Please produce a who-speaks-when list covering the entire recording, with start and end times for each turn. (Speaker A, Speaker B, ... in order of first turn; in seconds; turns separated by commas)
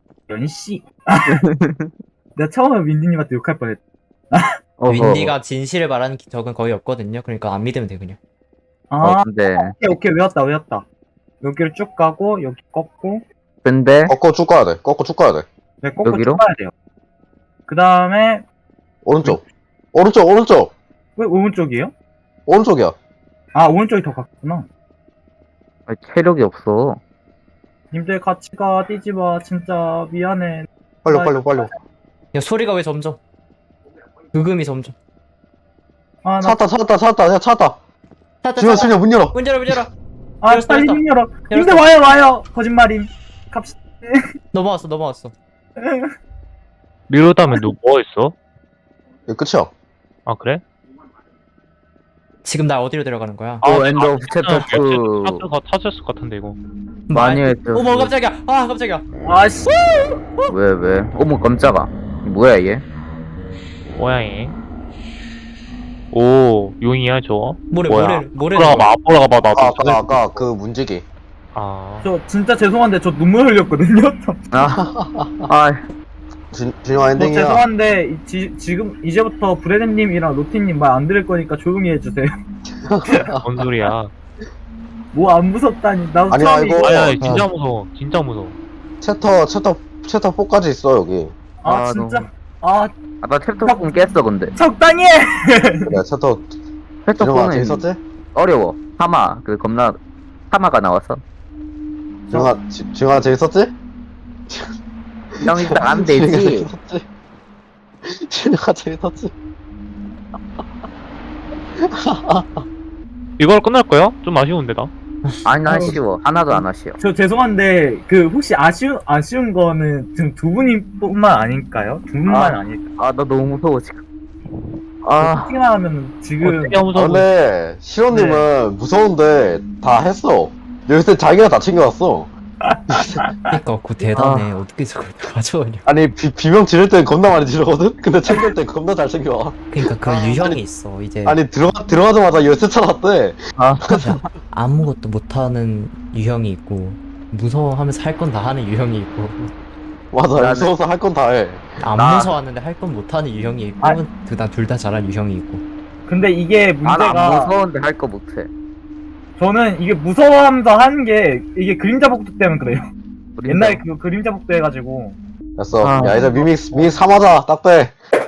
Speaker A: 0.3-1.4, Speaker B: 1.3-1.9, Speaker A: 2.4-4.5, Speaker B: 4.8-5.4, Speaker C: 4.9-8.2, Speaker A: 8.9-10.9, Speaker B: 9.0-9.8, Speaker A: 11.4-13.2, Speaker B: 13.6-14.1, Speaker D: 14.1-15.4, Speaker A: 15.8-16.7, Speaker B: 16.0-16.4, Speaker A: 17.7-18.4, Speaker D: 19.1-19.4, Speaker D: 19.9-20.7, Speaker A: 21.2-21.9, Speaker D: 22.5-22.9, Speaker A: 23.6-24.7, Speaker B: 25.9-27.0, Speaker A: 27.9-31.7, Speaker D: 31.1-31.7, Speaker C: 32.3-33.2, Speaker C: 34.3-35.0, Speaker A: 36.2-36.6, Speaker D: 36.4-37.8, Speaker C: 38.4-39.9, Speaker D: 38.6-39.8, Speaker A: 40.4-44.2, Speaker C: 40.5-41.9, Speaker C: 44.5-45.3, Speaker A: 45.8-46.1, Speaker E: 47.1-48.4, Speaker D: 49.3-49.7, Speaker E: 50.3-50.6, Speaker C: 52.4-53.7, Speaker E: 53.6-56.6, Speaker B: 53.6-55.5, Speaker C: 57.1-59.0, Speaker B: 57.1-58.1, Speaker A: 59.2-60.0, Speaker B: 60.5-62.9, Speaker E: 64.0-64.6, Speaker E: 66.1-70.4, Speaker C: 67.7-68.9, Speaker D: 69.5-71.0, Speaker E: 71.5-72.1, Speaker A: 72.0-74.4, Speaker B: 74.5-74.8, Speaker D: 74.7-75.5, Speaker B: 75.5-75.8, Speaker D: 76.5-77.6, Speaker A: 77.2-82.3, Speaker D: 82.8-83.4, Speaker A: 83.1-83.4, Speaker E: 83.4-84.1, Speaker A: 85.1-87.0, Speaker D: 86.3-87.3, Speaker E: 86.8-88.6, Speaker C: 87.2-87.5, Speaker D: 89.0-91.3, Speaker A: 91.6-92.9, Speaker B: 91.7-92.3, Speaker B: 93.2-94.5, Speaker A: 93.7-93.9, Speaker A: 94.6-95.9, Speaker D: 95.9-96.5, Speaker B: 97.0-100.0, Speaker D: 97.2-98.0, Speaker B: 100.5-101.2, Speaker D: 102.3-103.7, Speaker D: 105.4-107.1, Speaker B: 105.4-106.7, Speaker D: 108.0-109.3, Speaker D: 111.8-112.7, Speaker E: 113.4-114.9, Speaker C: 115.3-115.9, Speaker B: 115.5-117.0, Speaker A: 115.7-116.0, Speaker A: 117.0-122.8, Speaker B: 122.3-124.0, Speaker B: 125.0-125.5, Speaker A: 125.2-126.9, Speaker E: 126.4-127.3, Speaker D: 126.9-132.3, Speaker A: 128.1-128.5, Speaker A: 132.6-133.6, Speaker D: 132.9-133.2, Speaker C: 133.5-135.8, Speaker B: 134.2-134.5, Speaker D: 135.8-140.6, Speaker C: 139.7-141.4, Speaker D: 141.2-144.2, Speaker B: 143.6-144.0, Speaker C: 144.0-149.5, Speaker D: 150.1-151.8, Speaker B: 150.3-150.7, Speaker C: 151.8-155.6, Speaker B: 152.0-152.4, Speaker A: 156.1-157.5, Speaker B: 156.8-158.5, Speaker A: 159.4-162.9, Speaker B: 163.4-163.8, Speaker A: 163.5-165.2, Speaker D: 165.6-168.0, Speaker B: 165.8-166.3, Speaker A: 166.1-166.9